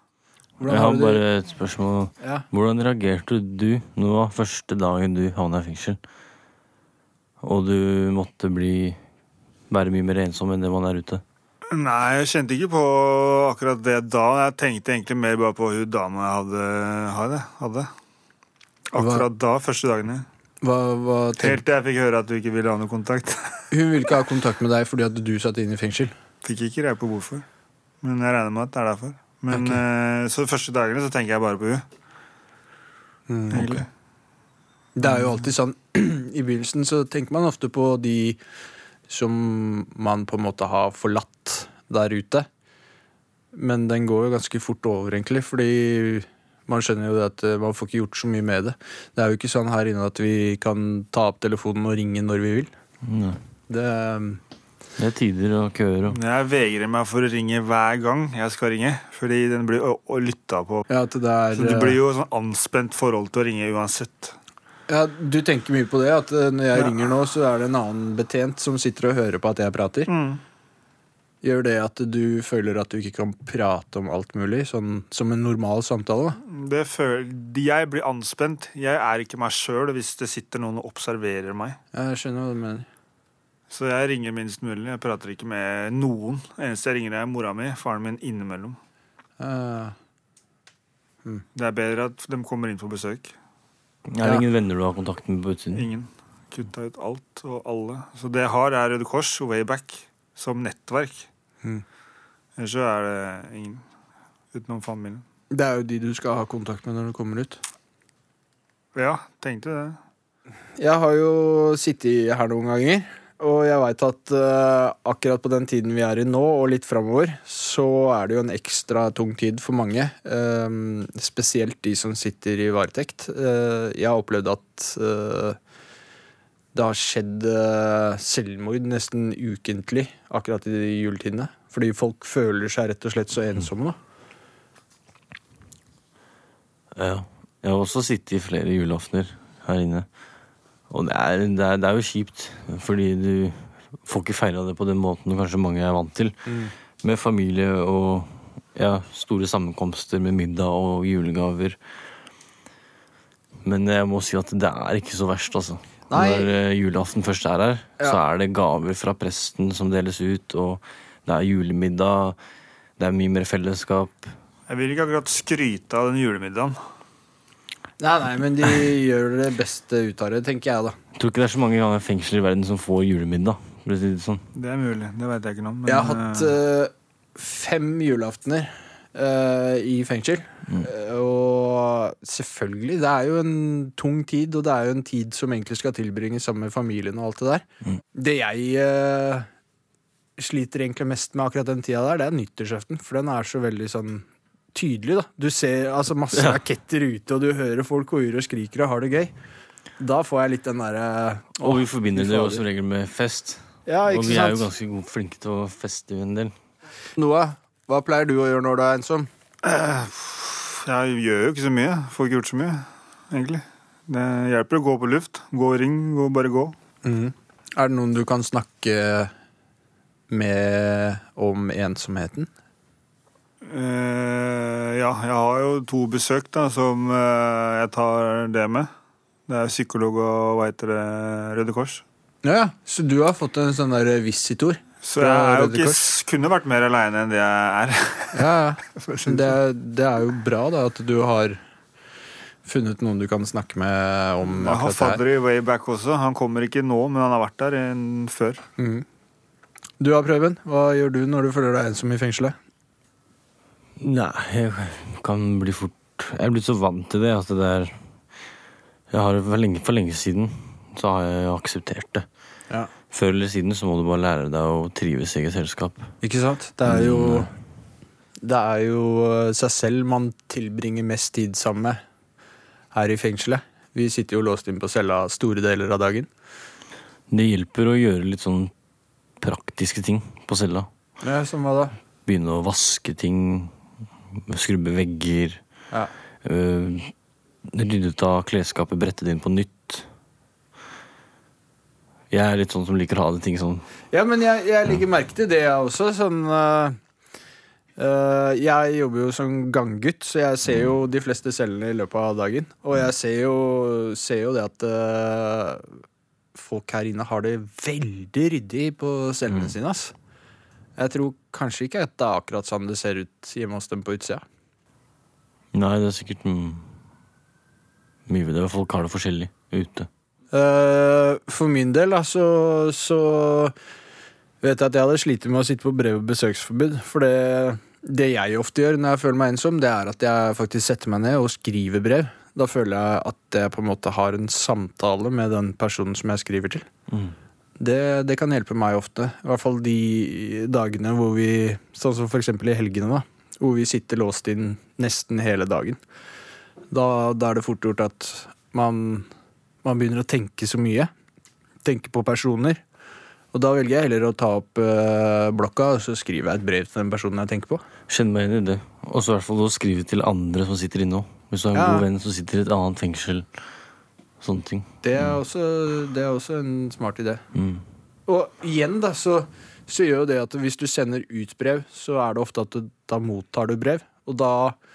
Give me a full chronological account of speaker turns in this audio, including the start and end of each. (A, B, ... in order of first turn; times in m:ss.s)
0:00.6-0:01.2 A
0:00.6-0:06.0 B
0:07.4-0:09.0 B
0:09.7-0:11.2 B
0:11.7-0:17.9 C
0:18.9-0:20.2 C
0:19.0-0:19.2 A
0:20.6-0:21.6 A
0:21.4-0:24.1 C
0:23.7-0:26.1 A
0:26.4-0:27.4 C
0:28.0-0:31.8 C
0:29.5-0:29.8 A
0:33.3-0:33.8 A
0:33.5-0:33.9 C
0:35.0-0:38.4 A
0:35.0-0:35.4 C
0:39.1-0:42.5 A
0:43.5-0:52.7 A
0:53.0-0:53.4 B
0:53.7-0:54.4 A
0:55.0-0:56.2 B
0:56.1-1:00.8 C
1:00.9-1:02.0 A
1:01.5-1:04.4 C
1:04.9-1:10.1 A
1:06.7-1:07.2 C
1:10.1-1:10.4 C
1:11.4-1:16.4 A
1:16.4-1:21.8 C
1:21.9-1:22.9 A
1:23.7-1:28.8 C
1:29.4-1:30.0 A
1:31.5-1:33.3 C
1:34.1-1:35.9 B
1:35.7-1:41.3 C
1:42.6-1:43.8 C
1:44.5-1:45.2 C
1:45.5-1:47.6 A
1:49.0-1:50.0 C
1:50.8-2:05.6 A
2:06.7-2:14.0 A
2:17.0-2:20.1 B
2:20.9-2:31.8 B
2:26.5-2:26.7 A
2:33.6-2:42.4 B
2:36.1-2:36.5 A
2:43.0-2:44.4 B
2:44.7-2:46.8 C
2:48.0-2:51.0 A
2:51.2-2:54.4 B
2:54.5-2:56.6 C
2:55.9-3:09.5 A
3:10.4-3:19.3 A
3:16.3-3:16.6 B
3:20.0-3:22.6 A
3:21.6-3:26.5 B
3:23.9-3:24.7 A
3:27.2-3:29.3 A
3:29.6-3:36.8 C
3:37.0-3:39.3 A
3:40.3-3:42.5 A
3:43.6-3:48.9 C
3:49.5-3:52.0 C
3:52.4-3:56.0 A
3:55.0-3:59.6 C
3:58.4-4:01.6 A
4:02.6-4:05.2 A
4:04.4-4:08.6 C
4:08.8-4:09.0 A
4:10.0-4:12.5 A
4:14.0-4:18.1 B
4:19.1-4:22.3 B
4:23.1-4:26.1 B
4:26.2-4:27.5 A
4:26.8-4:27.5 B
4:28.4-4:32.0 A
4:32.9-4:36.3 A
4:37.3-4:38.7 B
4:39.4-4:40.9 B
4:41.2-4:42.0 A
4:42.2-4:43.8 B
4:44.3-4:45.6 B
4:46.4-4:47.1 B
4:47.6-4:50.1 B
4:52.3-4:53.8 B
4:54.1-4:57.0 A
4:58.0-5:05.9 A
5:06.5-5:10.1 A
5:11.0-5:14.4 A
5:15.7-5:17.0 B
5:18.3-5:20.1 B
5:20.5-5:23.7 A
5:24.6-5:36.9 A
5:37.1-5:37.4 B
5:37.8-5:46.0 A
5:46.9-5:49.3 A
5:49.8-5:51.1 A
5:51.8-5:52.8 A
5:53.5-5:57.8 A
5:58.1-6:03.5 B
6:01.7-6:02.1 A
6:04.4-6:05.4 B
6:05.0-6:07.4 A
6:07.5-6:07.8 B
6:08.3-6:14.8 A